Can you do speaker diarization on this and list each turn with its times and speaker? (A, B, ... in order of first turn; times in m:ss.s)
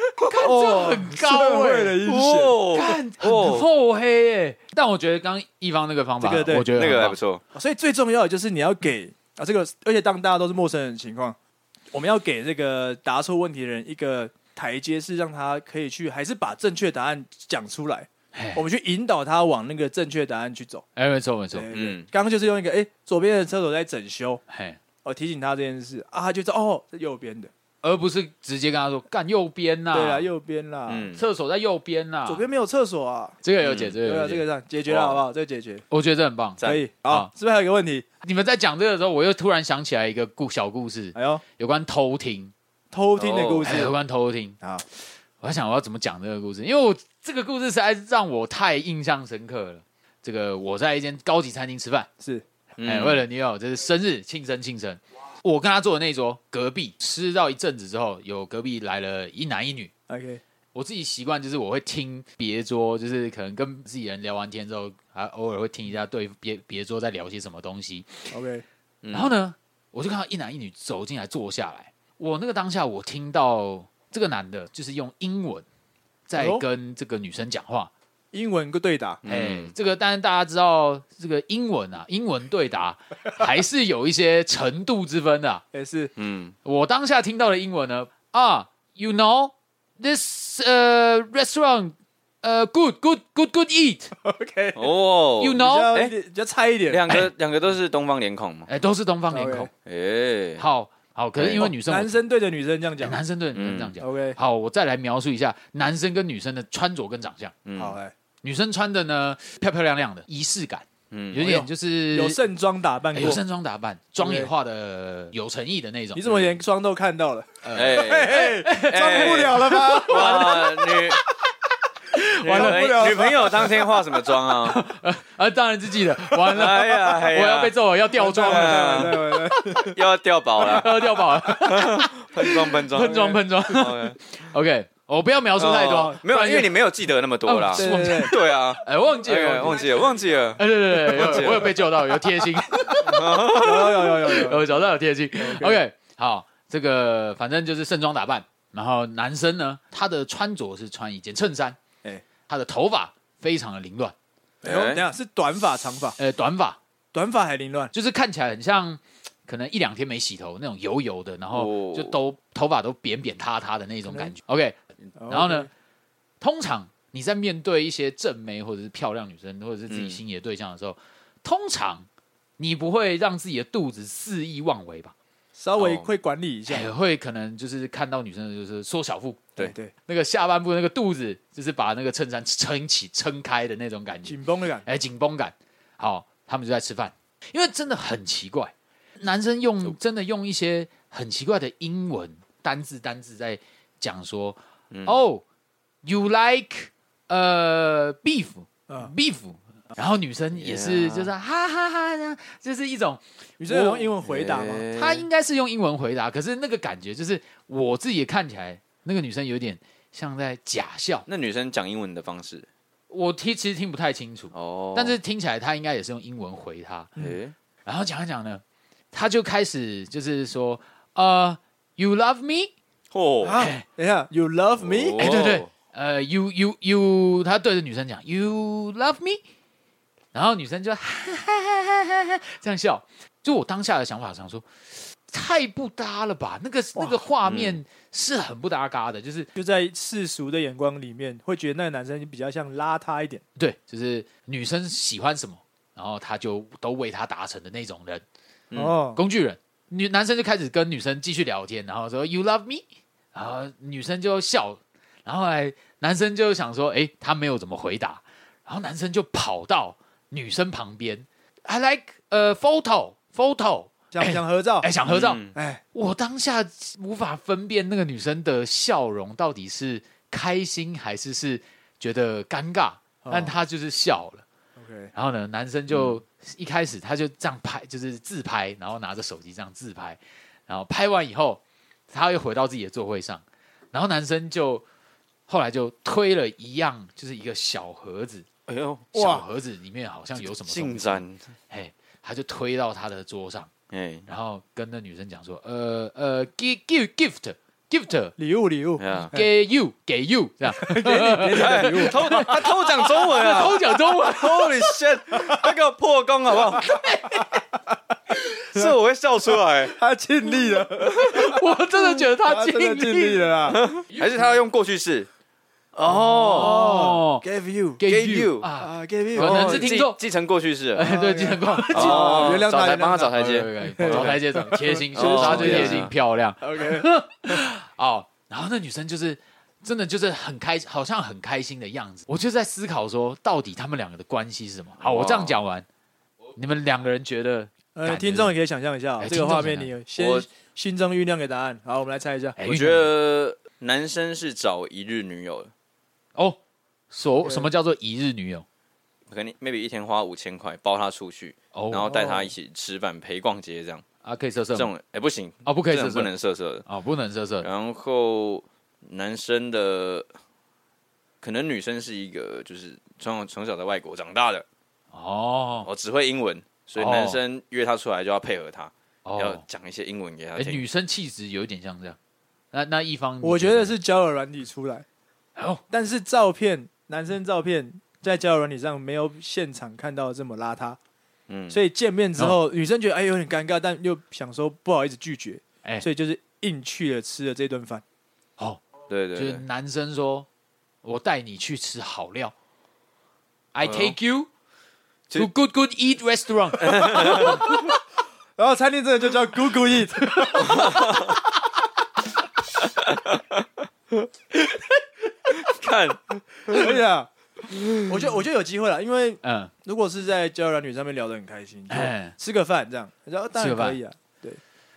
0:00.2-0:02.0 A
0:00.3-0:02.6 B
0:02.0-0:03.7 C
0:02.7-0:07.2 A
0:06.2-0:06.7 B
0:06.7-0:07.4 C
0:07.5-0:11.4 B
0:11.9-0:20.8 B
0:18.3-0:18.6 A
0:21.0-0:21.7 A
0:21.5-0:24.4 B
0:21.7-0:22.1 C
0:24.5-0:24.8 A
0:25.0-0:27.5 B
0:27.8-0:30.3 A
0:29.9-0:31.1 B
0:30.9-0:31.2 C
0:31.1-0:32.5 A
0:32.3-0:33.4 B
0:33.4-0:34.5 A
0:33.6-0:34.0 C
0:34.0-0:35.8 B
0:34.9-0:35.2 C
0:35.9-0:37.3 A
0:36.6-0:38.1 B
0:38.2-0:42.5 A
0:41.2-0:41.4 B
0:42.9-0:43.9 B
0:43.2-0:43.8 C
0:43.6-0:44.6 A
0:45.4-0:52.1 A
0:52.2-0:52.4 B
0:52.8-0:53.2 C
0:52.8-0:59.9 A
1:00.1-1:00.4 B
1:00.7-1:08.3 A
1:08.3-1:08.6 B
1:09.0-1:09.3 C
1:09.1-1:15.6 A
1:16.3-1:17.9 A
1:16.4-1:16.6 B
1:18.3-1:19.2 B
1:19.2-1:19.7 C
1:19.3-1:25.6 A
1:25.7-1:26.1 B
1:26.2-1:26.5 C
1:26.6-1:34.1 A
1:34.2-1:34.9 B
1:34.8-1:36.1 C
1:35.4-1:36.0 A
1:35.5-1:37.0 B
1:36.9-1:38.7 C
1:38.7-1:39.7 A
1:39.3-1:39.7 B
1:39.8-1:40.6 C
1:40.6-1:42.1 A
1:41.4-1:41.7 C
1:41.6-1:43.2 B
1:43.0-1:47.6 A
1:43.6-1:44.0 C
1:44.0-1:44.4 B
1:47.7-1:48.0 C
1:47.8-1:48.1 B
1:48.4-1:52.4 A
1:51.1-1:51.5 C
1:51.4-1:53.4 B
1:53.1-1:56.4 A
1:54.2-1:54.5 B
1:56.2-2:01.2 B
1:57.6-2:00.6 A
1:57.8-2:01.2 C
2:02.1-2:03.0 A
2:02.4-2:04.8 C
2:02.4-2:04.0 B
2:04.6-2:09.9 A
2:06.5-2:07.8 C
2:08.2-2:10.0 B
2:08.4-2:14.2 C
2:10.6-2:16.8 A
2:15.6-2:21.8 C
2:17.4-2:19.9 A
2:17.8-2:18.4 B
2:20.6-2:31.8 A
2:21.2-2:21.6 B
2:22.8-2:24.7 B
2:23.0-2:24.2 C
2:25.4-2:25.8 B
2:32.5-2:34.2 A
2:34.6-2:35.0 C
2:34.6-2:36.2 B
2:36.2-2:36.8 A
2:37.1-2:37.9 B
2:37.9-2:44.8 A
2:41.5-2:42.2 C
2:44.1-2:44.4 B
2:45.2-2:45.7 B
2:45.3-2:45.7 A
2:46.4-2:52.1 A
2:49.9-2:50.2 C
2:52.6-2:55.1 A
2:55.6-2:56.9 B
2:55.8-2:56.1 C
2:56.7-3:15.4 A
2:59.6-2:59.9 B
3:04.2-3:04.9 B
3:14.9-3:15.2 C
3:16.0-3:24.1 A
3:20.6-3:21.3 C
3:23.6-3:24.9 B
3:24.2-3:25.3 C
3:24.9-3:31.3 A
3:31.3-3:32.7 C
3:33.1-3:37.1 A
3:34.5-3:35.2 C
3:37.2-3:37.5 C
3:37.8-3:42.7 A
3:43.1-3:43.6 C
3:43.4-3:45.5 B
3:43.6-3:43.8 A
3:44.8-3:45.7 C
3:45.2-3:49.4 A
3:50.3-3:59.5 A
3:57.0-3:57.2 B
3:57.4-3:57.8 C
3:59.6-4:03.4 B
4:03.6-4:08.2 A
4:08.7-4:09.0 C
4:08.8-4:09.2 B
4:09.2-4:25.4 A
4:24.1-4:24.9 B
4:25.1-4:25.6 C
4:25.5-4:25.8 B
4:25.9-4:34.4 A
4:33.2-4:33.5 B
4:34.8-4:35.1 B
4:35.1-4:44.8 A
4:35.9-4:36.2 C
4:45.5-4:48.5 A
4:48.7-4:49.1 C
4:49.1-4:49.4 B
4:49.1-4:53.7 A
4:50.4-4:51.4 C
4:53.9-4:54.2 C
4:54.3-4:58.4 A
4:58.4-4:59.5 B
4:59.0-4:59.3 C
4:59.3-5:05.0 A
5:00.7-5:02.7 B
5:01.5-5:07.0 C
5:05.4-5:05.7 B
5:06.8-5:07.6 A
5:07.3-5:08.0 B
5:08.7-5:10.0 C
5:09.9-5:13.8 B
5:11.1-5:13.5 A
5:13.7-5:15.3 C
5:14.1-5:14.4 A
5:15.9-5:16.8 C
5:16.1-5:18.0 B
5:16.1-5:17.4 A
5:18.0-5:20.2 A
5:18.1-5:18.7 C
5:18.8-5:19.9 B
5:19.4-5:21.1 C
5:21.0-5:22.6 A
5:21.0-5:27.1 B
5:21.9-5:24.4 C
5:23.3-5:35.9 A
5:25.1-5:26.1 C
5:35.0-5:35.6 C
5:36.6-5:38.6 A
5:38.0-5:42.6 B
5:39.2-5:39.9 A
5:40.2-5:40.5 C
5:42.6-5:43.1 A
5:42.6-5:45.7 C
5:47.1-5:48.6 A
5:47.4-5:47.7 B
5:49.3-5:54.0 C
5:51.8-5:52.4 A
5:52.1-5:52.4 B
5:54.2-5:54.9 A
5:54.8-5:56.8 C
5:55.6-5:56.3 A
5:56.9-5:57.7 A
5:57.6-6:00.3 C
6:01.4-6:04.6 C
6:05.1-6:05.9 A
6:05.8-6:10.8 C
6:07.0-6:07.4 A
6:09.3-6:09.6 A
6:10.6-6:12.2 A
6:12.7-6:14.0 A
6:13.4-6:15.1 B
6:15.6-6:15.8 A
6:15.9-6:21.0 B
6:21.5-6:21.8 C
6:21.7-6:28.0 B
6:28.6-6:28.8 A
6:29.1-6:29.6 C
6:29.4-6:30.5 A
6:31.0-6:32.5 A
6:33.7-6:34.5 A
6:33.8-6:34.2 C
6:35.3-6:37.8 A
6:36.8-6:37.7 C
6:37.2-6:37.7 B
6:38.6-6:41.1 B
6:40.4-6:40.8 A
6:40.6-6:41.4 C
6:42.8-6:44.8 C
6:45.5-6:46.9 C
6:46.7-6:47.3 B
6:47.7-6:48.2 C
6:48.1-6:54.6 B
6:49.4-6:49.7 A
6:51.9-6:52.4 A
6:53.6-6:54.0 A